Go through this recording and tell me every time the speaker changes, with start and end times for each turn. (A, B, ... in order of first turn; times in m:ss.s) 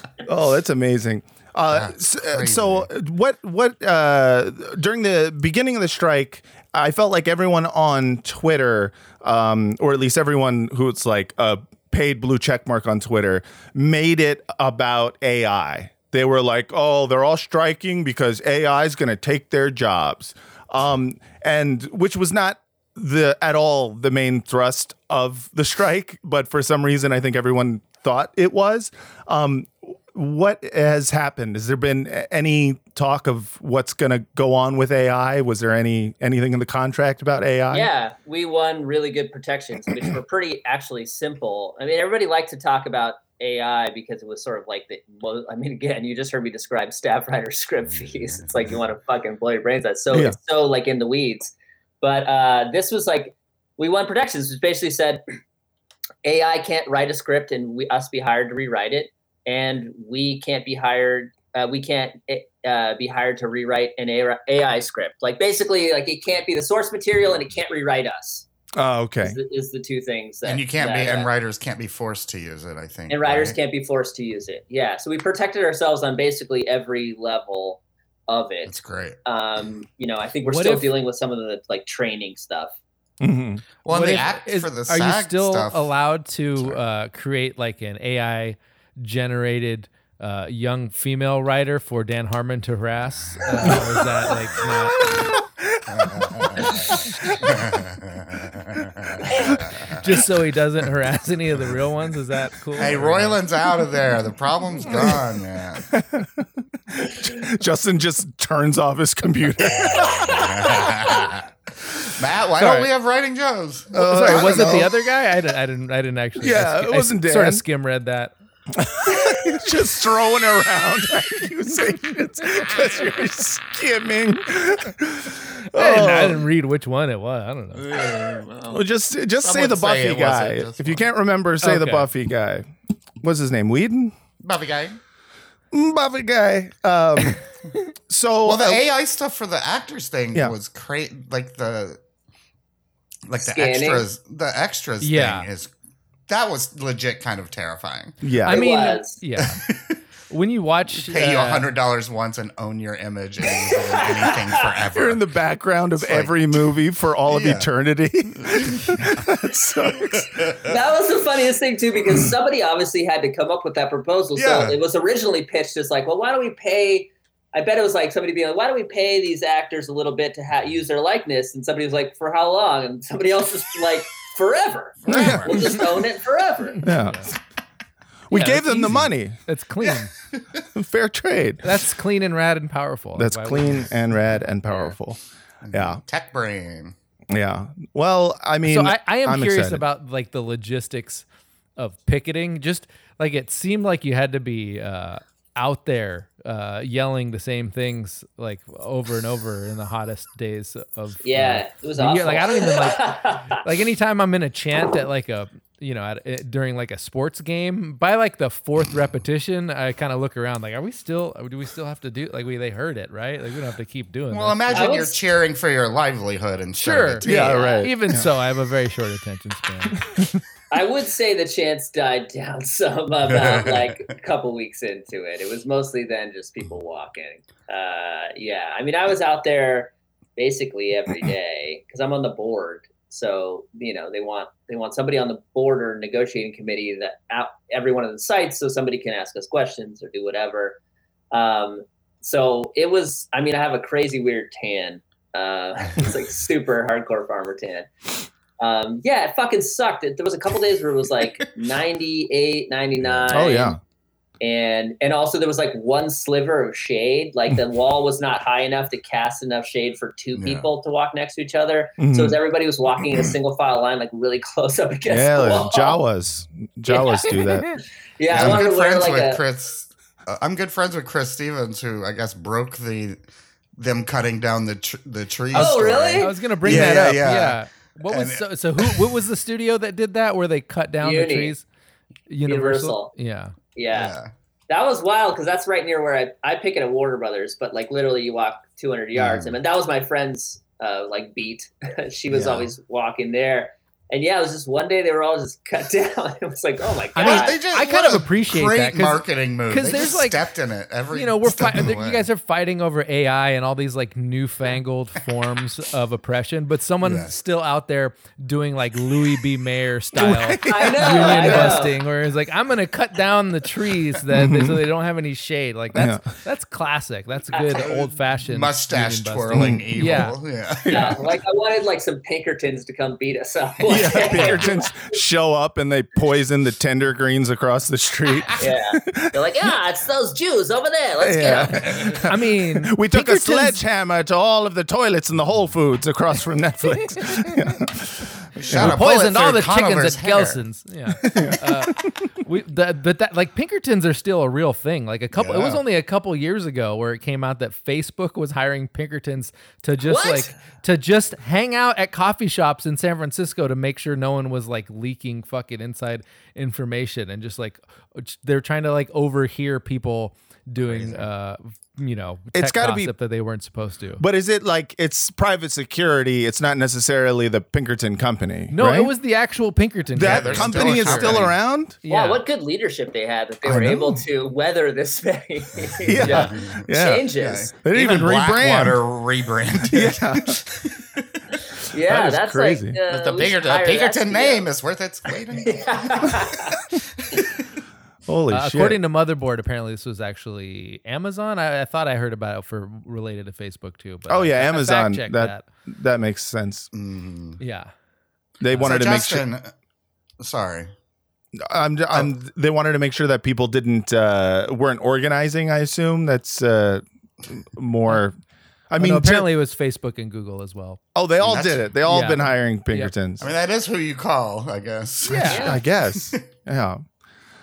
0:00.2-0:37.9 A
0:01.7-0:02.9 B
0:37.7-0:55.2 C
0:47.9-0:48.7 B
0:56.2-1:08.4 C
1:08.8-1:09.4 A
1:09.2-1:11.3 C
1:10.4-1:13.6 B
1:13.1-1:18.7 C
1:18.6-1:19.2 B
1:19.2-1:22.7 C
1:20.4-1:20.9 D
1:23.2-1:23.6 A
1:23.8-1:25.9 B
1:23.9-1:35.1 D
1:35.9-1:40.0 B
1:39.9-1:43.4 D
1:42.8-1:45.9 B
1:45.9-1:50.9 A
1:49.7-1:51.5 B
1:52.1-1:54.9 B
1:52.6-1:52.9 D
1:53.9-1:54.9 A
1:53.9-1:58.3 D
1:56.4-1:57.6 A
1:58.7-2:06.4 A
2:05.7-2:08.1 D
2:07.7-2:08.8 B
2:08.7-2:12.7 A
2:09.4-2:11.0 B
2:11.6-2:12.1 D
2:13.2-2:14.2 A
2:14.4-2:15.0 B
2:15.7-2:17.4 A
2:18.1-2:18.8 A
2:18.4-2:22.0 B
2:23.3-2:25.7 B
2:23.4-2:24.0 C
2:25.0-2:25.5 D
2:26.3-2:28.2 B
2:28.2-2:28.6 A
2:28.4-2:29.6 D
2:28.4-2:29.2 C
2:29.4-2:30.0 B
2:30.3-2:31.7 D
2:31.0-2:35.2 B
2:33.9-2:34.5 C
2:34.9-2:40.4 A
2:36.0-2:36.3 B
2:37.3-2:37.7 B
2:38.4-2:40.7 B
2:40.6-2:56.8 C
2:44.3-2:44.8 B
2:55.0-2:55.8 B
2:55.1-2:55.4 A
2:56.8-2:57.3 D
2:56.8-2:57.3 A
2:58.3-2:59.4 A
2:58.3-3:00.2 D
3:00.7-3:01.8 A
3:01.6-3:03.9 D
3:03.2-3:05.2 A
3:05.6-3:07.0 B
3:05.7-3:06.0 A
3:07.3-3:09.8 A
3:08.6-3:11.2 D
3:11.8-3:34.9 D
3:21.2-3:23.6 C
3:34.3-3:37.6 B
3:34.7-3:35.2 C
3:36.8-3:40.1 D
3:37.2-3:38.3 A
3:37.3-3:37.9 C
3:40.7-4:00.8 C
3:43.3-3:43.9 B
4:01.3-4:07.9 C
4:08.6-4:13.8 C
4:13.0-4:13.4 B
4:13.3-4:13.8 A
4:14.4-4:26.0 C
4:20.3-4:20.7 B
4:22.0-4:22.4 A
4:25.1-4:27.7 A
4:26.9-4:27.5 C
4:28.2-4:29.4 C
4:28.3-4:33.2 B
4:33.8-4:39.0 B
4:35.5-4:37.0 C
4:35.5-4:41.6 D
4:41.0-4:41.5 C
4:42.3-4:43.5 D
4:42.4-4:43.1 C
4:43.8-4:44.2 C
4:43.9-4:44.3 B
4:44.7-4:57.6 C
4:49.1-4:49.5 B
4:57.1-5:00.4 D
4:57.2-5:02.3 B
5:01.1-5:20.4 D
5:07.0-5:07.4 B
5:10.1-5:11.8 A
5:10.6-5:11.9 C
5:14.3-5:14.8 A
5:15.9-5:16.2 A
5:17.5-5:17.9 C
5:17.8-5:21.2 B
5:19.5-5:20.2 A
5:20.8-5:21.2 A
5:20.9-5:25.1 C
5:23.9-5:29.4 A
5:28.6-5:32.1 C
5:31.2-5:39.0 A
5:32.0-5:33.8 D
5:38.6-5:40.6 B
5:38.6-6:04.2 D
5:41.2-5:41.5 B
5:41.2-5:41.6 A
5:45.3-5:45.8 B
5:50.0-5:50.6 C
6:00.8-6:01.3 B
6:02.5-6:03.1 A
6:04.2-6:09.1 A
6:08.7-6:11.5 D
6:10.1-6:12.0 A
6:10.2-6:11.5 B
6:12.0-6:12.4 D
6:12.1-6:17.7 C
6:13.6-6:14.2 A
6:16.0-6:19.0 A
6:16.1-6:16.8 B
6:16.2-6:16.5 D
6:17.4-6:21.4 B
6:19.9-6:20.6 A
6:21.9-6:24.7 C
6:21.9-6:23.0 A
6:23.1-6:27.5 B
6:25.6-6:26.8 C
6:28.3-6:29.0 A
6:28.5-6:35.6 D
6:34.3-6:36.9 A
6:36.9-6:37.6 B
6:37.6-6:37.9 D
6:38.6-6:39.4 A
6:38.7-6:39.0 D
6:38.7-6:39.7 B
6:40.4-6:40.9 B
6:41.6-6:48.4 A
6:48.9-6:49.5 A
6:49.0-6:51.0 D
6:51.1-6:53.5 A
6:51.4-6:51.9 B
6:52.1-6:53.1 D
6:53.4-6:56.4 B
6:55.3-6:55.7 D
6:55.4-6:55.8 C
6:55.4-6:57.0 A